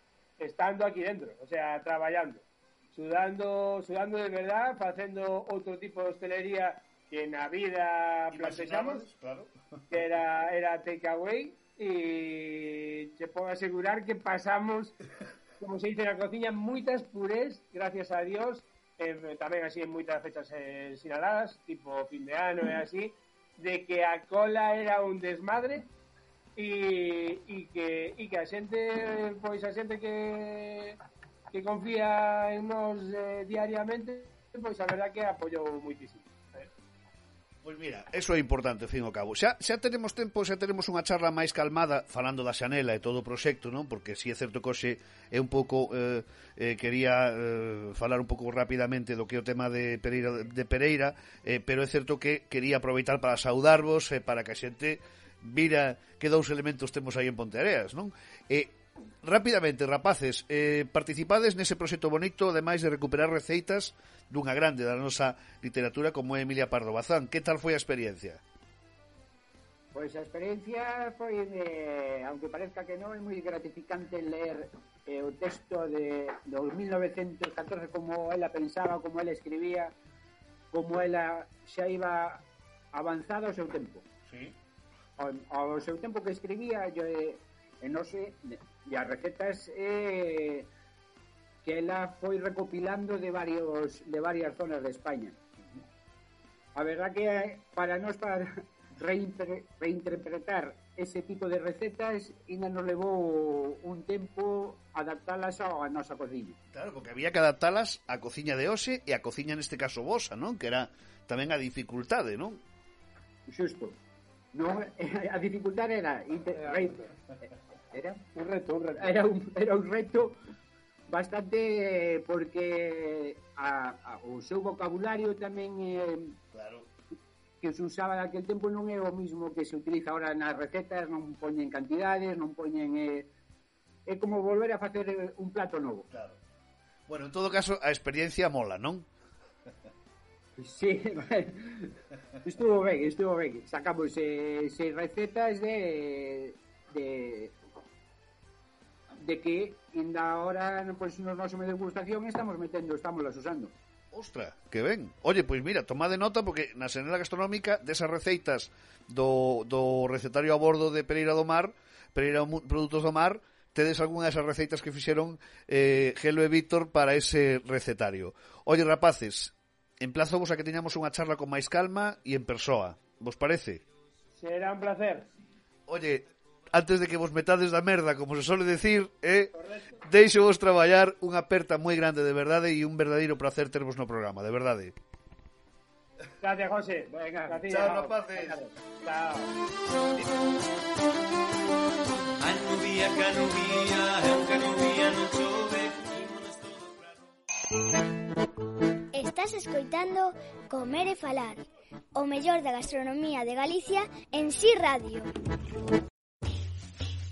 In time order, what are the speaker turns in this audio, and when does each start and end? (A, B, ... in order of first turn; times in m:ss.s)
0:00.4-0:09.0 A
0:08.3-0:09.6 B
0:09.9-0:15.0 A
0:15.6-0:25.9 A
0:26.6-0:31.0 A
0:31.5-0:36.7 A
0:37.6-1:08.4 B
1:09.9-1:19.9 C
1:20.7-1:24.0 C
1:24.3-1:24.6 B
1:25.2-1:30.7 C
1:31.6-1:35.4 C
1:36.8-1:46.6 C
1:46.7-1:52.6 B
1:53.5-1:54.0 C
1:54.5-1:57.1 C
1:56.6-1:56.9 A
1:57.9-1:58.2 C
1:58.4-1:59.1 A
1:59.0-2:00.4 C
2:01.1-2:06.4 C
2:06.5-2:06.9 B
2:07.6-2:13.3 C
2:14.1-2:16.1 C
2:16.1-2:16.4 B
2:17.1-2:19.1 B
2:20.6-2:27.6 C
2:29.2-2:33.7 C
2:34.1-2:53.8 B
2:54.4-2:55.3 A
2:55.9-3:05.0 B
3:06.4-3:09.5 A
3:07.1-3:08.0 C
3:07.7-3:08.6 B
3:12.4-3:17.2 D
3:19.1-3:25.3 E